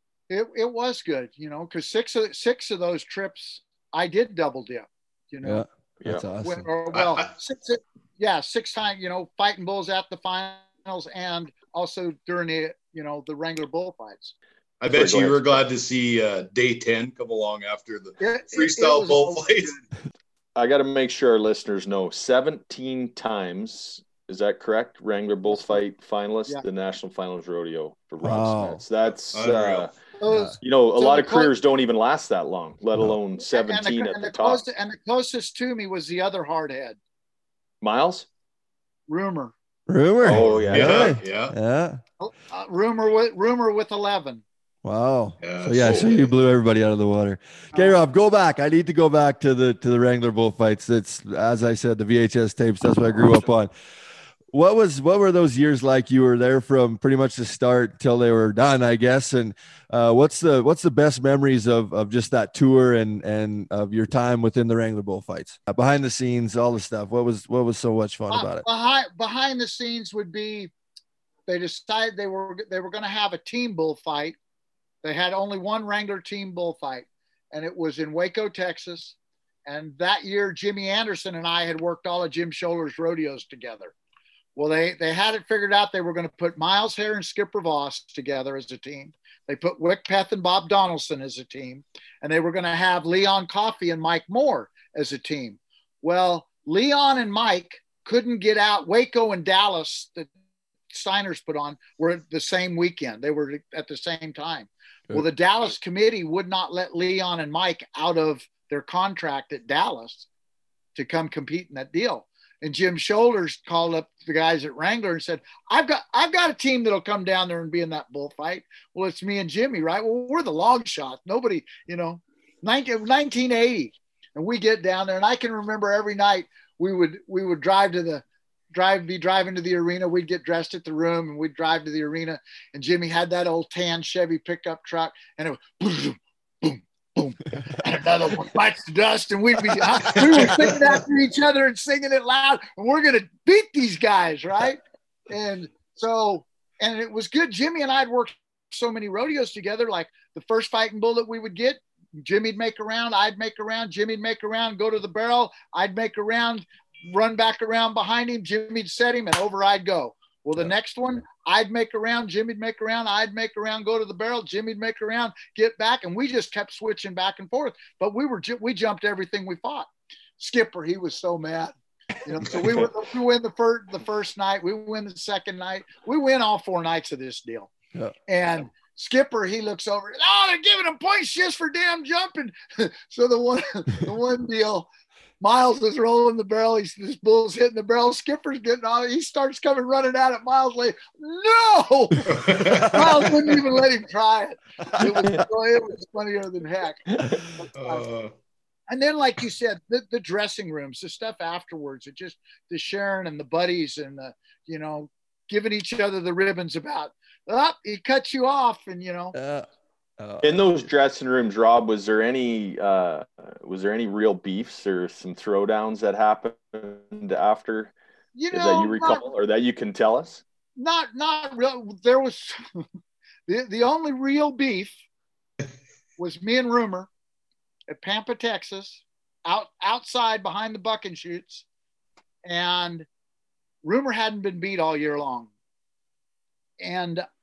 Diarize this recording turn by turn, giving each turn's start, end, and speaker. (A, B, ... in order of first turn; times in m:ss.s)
0:00.3-0:05.6 A
0:05.4-0:06.7 B
0:06.4-0:14.3 A
0:06.9-0:07.3 C
0:14.8-0:19.8 C
0:14.9-0:15.6 D
0:18.2-0:19.8 A
0:20.6-0:30.0 D
0:28.2-0:28.8 B
0:29.3-0:29.9 C
0:30.2-0:31.5 A
0:30.3-0:30.6 B
0:30.6-0:34.6 D
0:33.5-0:37.0 A
0:37.8-0:38.3 D
0:39.1-0:39.5 A
0:39.9-0:42.0 B
0:40.2-0:41.2 D
0:40.3-0:41.6 C
0:42.2-0:44.4 A
0:44.8-0:53.7 B
0:45.4-0:46.3 C
0:54.5-1:08.7 B
1:08.3-1:10.7 A
1:11.5-1:14.4 A
1:15.0-1:23.9 A
1:24.6-1:40.3 A
1:40.9-1:50.3 A
1:51.0-2:24.8 A
2:25.3-2:51.7 A
2:52.2-2:57.7 A
2:58.3-3:04.9 A
3:05.4-3:12.3 A
3:12.3-3:13.4 C
3:12.9-3:17.0 A
3:15.0-3:15.4 B
3:17.6-3:18.0 A
3:17.8-3:18.3 C
3:18.9-3:29.4 A
3:29.3-3:29.7 B
3:30.2-3:30.9 B
3:30.4-3:37.9 D
3:38.3-3:39.3 A
3:38.5-3:40.4 D
3:40.8-3:42.8 A
3:43.5-3:45.0 A
3:46.2-3:47.1 A
3:47.9-3:51.6 A
3:52.4-3:53.1 A
3:53.8-3:55.5 A
3:56.8-3:57.2 A